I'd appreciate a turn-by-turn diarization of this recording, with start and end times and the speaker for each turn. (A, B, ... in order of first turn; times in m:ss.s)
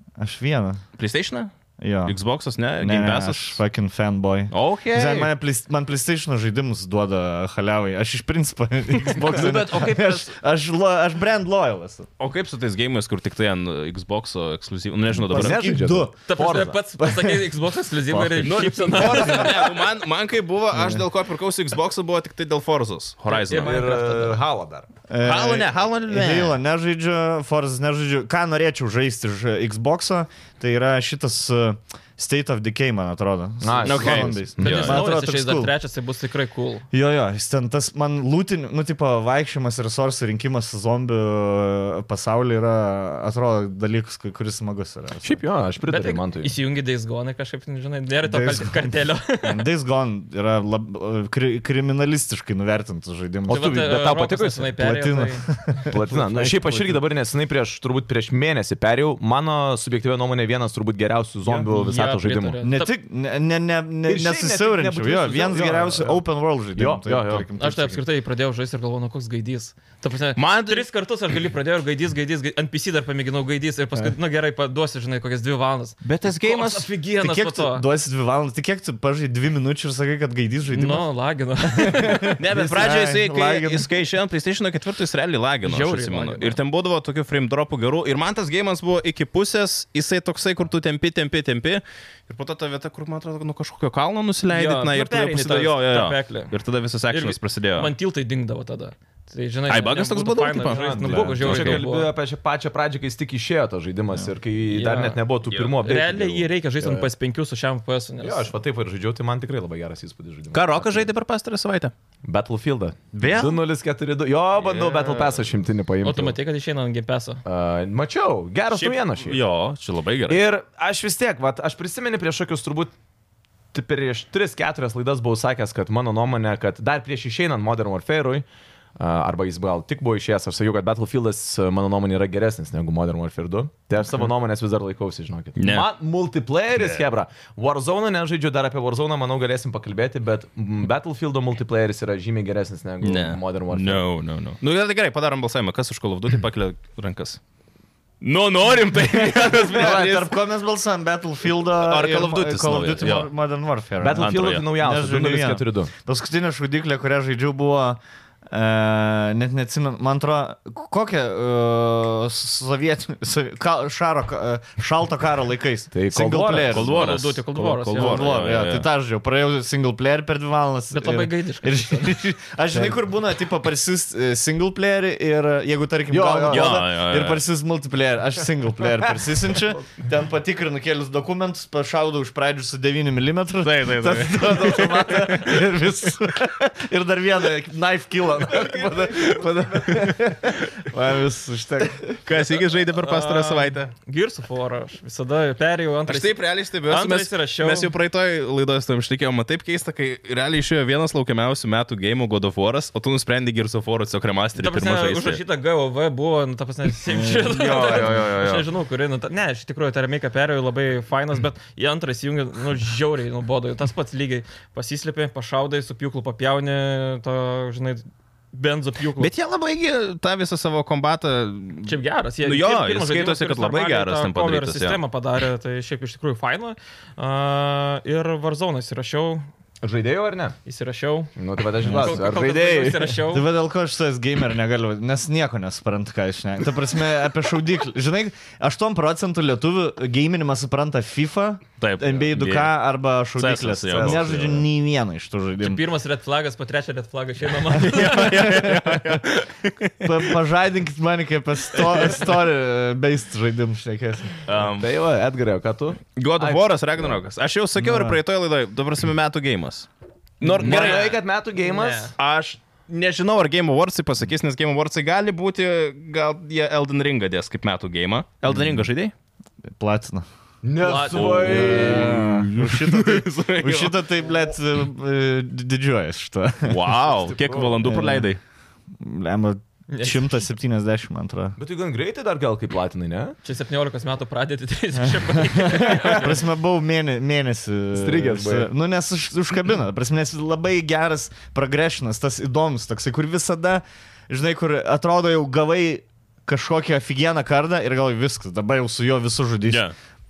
0:00.2-0:00.8 A
0:01.0-0:01.5 B
0:01.8-0:02.2 A
0:02.0-0:03.6 B
0:02.8-0:12.1 A
0:04.5-0:05.3 B
0:09.1-0:10.3 B
0:12.2-0:15.7 B
0:15.2-0:16.8 C
0:15.3-0:16.2 A
0:16.3-0:19.7 D
0:17.0-0:19.6 A
0:18.4-0:23.8 B
0:20.7-0:21.0 A
0:23.3-0:24.4 D
0:23.5-0:24.9 C
0:25.1-0:35.7 A
0:25.2-0:26.6 B
0:33.6-0:34.7 C
0:33.8-0:35.1 B
0:34.6-0:36.9 D
0:36.9-0:45.4 A
0:45.2-0:46.5 C
0:45.9-0:49.6 D
0:48.2-0:53.9 A
0:53.5-0:54.8 C
0:53.5-0:55.5 D
0:54.8-0:57.0 A
0:55.9-1:02.6 C
1:01.5-1:02.9 D
1:02.6-1:08.0 A
1:04.1-1:06.2 C
1:06.8-1:07.5 C
1:07.6-1:17.8 D
1:10.4-1:10.9 B
1:16.0-1:16.9 B
1:17.2-1:21.1 A
1:20.7-1:22.4 D
1:21.6-1:23.9 A
1:22.4-1:37.9 B
1:25.6-1:26.6 D
1:34.5-1:36.5 D
1:37.1-1:42.1 D
1:39.7-1:41.8 B
1:40.7-1:47.1 C
1:44.7-1:45.2 D
1:45.8-1:48.5 D
1:48.2-1:51.1 C
1:50.5-1:51.9 B
1:52.2-1:56.4 C
1:53.1-1:53.6 B
1:54.6-1:55.4 B
1:56.0-1:57.4 D
1:57.4-1:59.4 C
1:58.7-2:00.4 B
2:00.3-2:02.9 C
2:03.7-2:08.5 C
2:09.0-2:24.0 C
2:15.6-2:15.9 B
2:23.0-2:27.4 B
2:28.2-2:30.4 B
2:29.1-2:46.9 A
2:31.8-2:33.3 B
2:34.0-2:35.9 C
2:34.2-2:34.7 B
2:45.9-2:47.2 C
2:46.7-2:48.9 B
2:46.9-2:48.4 D
2:48.0-3:12.2 A
2:50.9-2:52.1 D
2:56.1-2:56.8 C
2:56.5-2:57.4 B
3:03.6-3:05.6 B
3:12.2-3:13.9 B
3:13.0-3:17.9 D
3:16.1-3:25.4 B
3:24.6-3:39.3 D
3:27.2-3:28.7 B
3:39.2-3:45.0 B
3:41.9-3:49.5 D
3:49.8-3:50.6 C
3:50.6-3:51.3 D
3:51.4-3:53.2 C
3:51.8-3:52.2 A
3:51.8-3:53.5 D
3:53.3-4:05.8 A
4:01.8-4:02.7 B
4:03.4-4:04.6 B
4:04.0-4:04.6 C
4:05.6-4:08.7 D
4:07.8-4:10.3 B
4:08.1-4:09.2 A
4:10.0-4:14.4 A
4:11.8-4:12.2 B
4:14.5-4:14.9 B
4:14.8-4:17.2 C
4:16.2-4:19.9 B
4:17.8-4:18.2 A
4:20.4-4:21.2 B
4:20.4-4:22.1 C
4:20.6-4:22.1 D
4:22.2-4:29.1 B
4:29.8-4:30.3 A
4:30.6-4:32.4 C
4:30.8-4:31.5 D
4:31.1-4:34.0 B
4:31.3-4:36.7 A
4:36.6-4:38.4 B
4:37.0-4:37.9 C
4:37.8-4:38.3 A
4:39.0-4:41.6 A
4:39.9-4:40.4 D
4:41.6-4:43.4 C
4:43.4-4:46.4 D
4:45.0-4:59.9 A
4:47.9-4:48.7 C
4:59.7-4:59.9 B